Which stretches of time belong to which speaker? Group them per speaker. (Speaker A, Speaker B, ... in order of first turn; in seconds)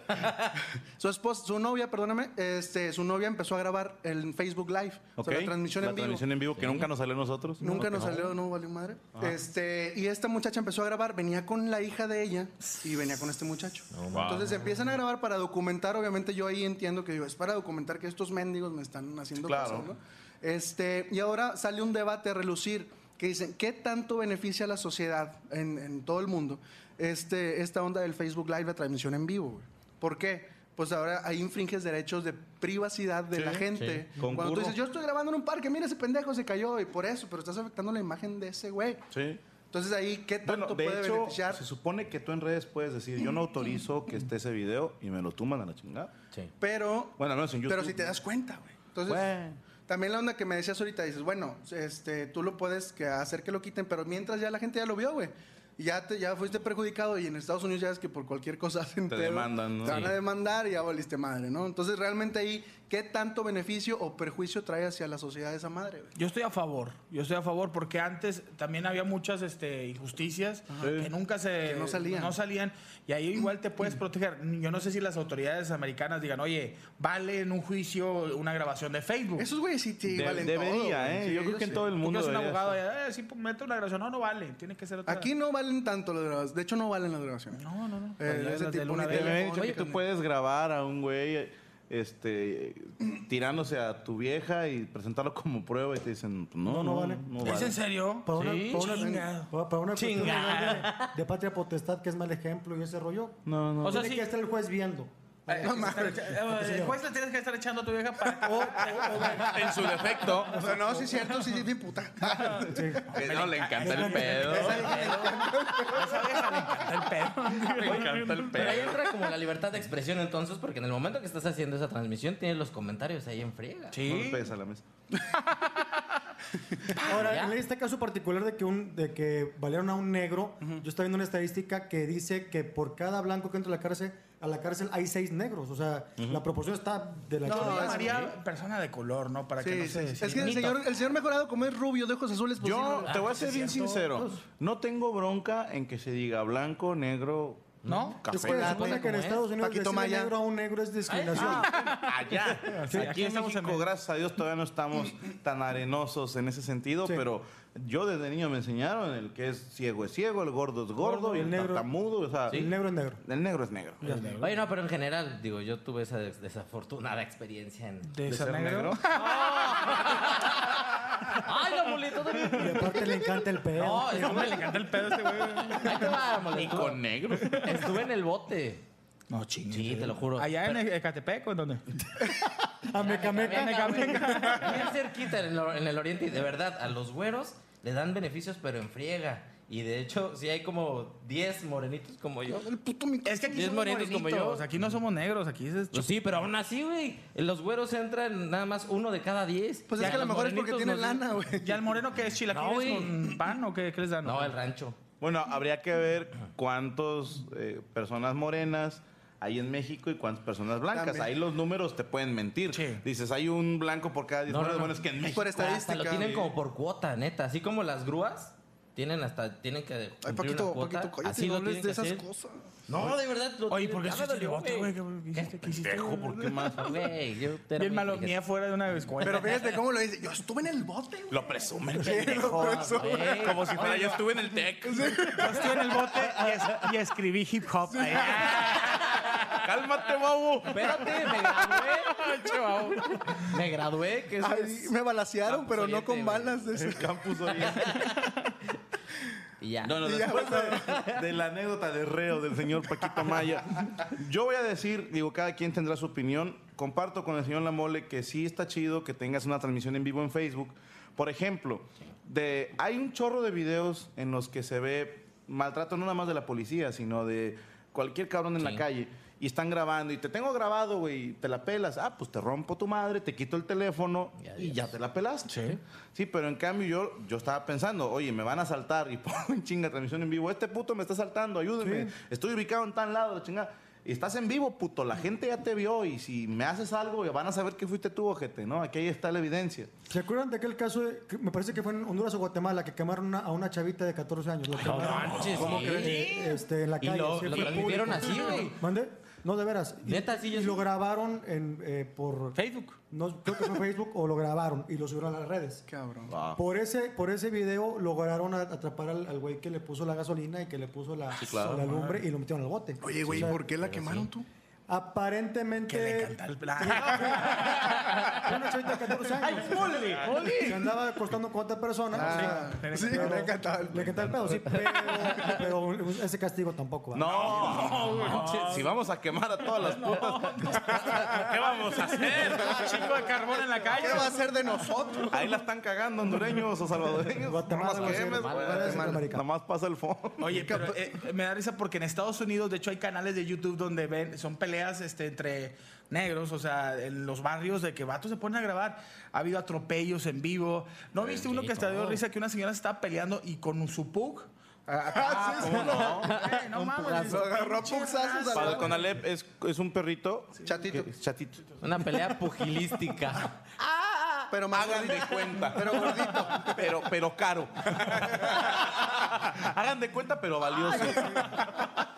Speaker A: 1.0-6.3, 7.6-39.0, 39.7-41.6, 46.6-66.1, 71.6-72.3, 79.4-81.8, 85.0-87.6, 88.2-90.0, 98.8-99.2, 105.5-106.3, 110.5-113.0, 114.4-116.4, 137.4-138.2, 139.6-143.2, 148.3-150.3, 192.5-194.0, 199.9-201.9, 210.9-211.3, 215.2-216.4, 220.2-222.7, 229.2-233.9, 234.8-235.6, 238.0-238.3, 244.4-247.5, 250.0-251.0, 305.9-306.3, 313.0-314.5, 322.1-325.5, 333.9-335.6, 338.0-339.2, 355.1-356.1, 357.2-359.1, 360.6-361.1, 364.5-366.9, 370.9-371.4
Speaker B: 5.2-8.1, 14.1-14.6, 19.4-19.9, 33.3-34.8, 39.1-39.4, 40.4-46.1, 47.2-48.2, 49.0-49.6, 59.1-60.1, 70.8-71.1, 80.0-82.8, 89.0-97.8, 103.5-104.1, 109.4-110.7, 113.1-114.9, 117.7-119.1, 124.0-124.8, 136.2-136.4, 142.6-149.0, 151.4-164.2, 168.2-169.0, 176.5-177.6, 205.2-216.5, 225.7-227.0, 231.3-235.7, 239.6-241.0, 246.8-248.1, 249.8-275.6, 276.1-289.9, 295.6-295.9, 306.3-306.6, 311.4-311.9, 327.1-333.0, 335.3-340.7, 351.2-351.6, 355.6-356.4, 358.5-361.6, 364.7-371.6
Speaker C: 6.6-6.9, 7.6-8.3, 13.9-14.7, 33.8-34.0, 98.3-99.0, 99.9-101.1, 114.5-115.5, 118.5-124.0, 127.1-127.5, 140.3-140.8, 143.1-143.9, 148.1-149.4, 151.1-152.0, 164.4-168.1, 169.1-173.2, 173.7-174.8, 175.7-178.8, 179.7-180.8, 182.9-192.7, 193.5-194.7, 195.9-201.2, 202.5-203.4, 204.2-205.0, 214.5-222.2, 222.9-225.7, 226.6-228.3, 232.9-234.2, 240.7-242.2, 243.1-244.9, 245.4-246.7, 247.5-248.3, 249.6-250.0, 250.7-251.1, 268.6-268.8, 274.4-274.9, 294.8-296.3, 297.0-298.8, 300.0-300.8, 313.2-314.3, 319.5-320.3, 324.7-325.5, 328.0-328.8, 338.0-339.0, 351.4-352.2, 355.8-357.4, 361.8-364.5
Speaker D: 66.2-79.5, 81.8-85.3, 87.5-89.5, 97.4-99.5, 100.2-100.9, 103.8-104.3, 105.5-109.5, 113.1-115.0, 115.9-118.9, 123.9-124.5, 125.4-125.8, 137.4-140.7, 143.3-144.1, 147.8-148.2, 151.4-153.9, 164.0-164.5, 168.0-170.1, 174.1-176.2, 177.4-177.8, 179.3-181.8, 183.4-184.8, 193.2-196.1, 200.0-200.5, 201.5-204.6, 212.7-213.0, 223.7-226.7, 227.8-229.8, 235.4-239.7, 241.4-243.5, 275.5-275.8, 295.2-296.4, 297.5-298.6, 302.5-303.0, 315.9-318.5, 319.4-320.9, 322.2-323.6, 327.3-329.0, 329.6-334.5, 340.4-359.1
Speaker E: 96.7-97.5, 98.2-107.0, 108.2-111.0, 112.7-113.2, 113.8-114.4, 127.0-138.2, 148.2-151.8, 161.0-161.9, 162.5-163.2, 164.0-164.4, 172.5-174.7, 182.9-184.7, 281.8-282.1, 290.1-305.9, 306.5-313.6, 314.9-327.3, 337.4-339.4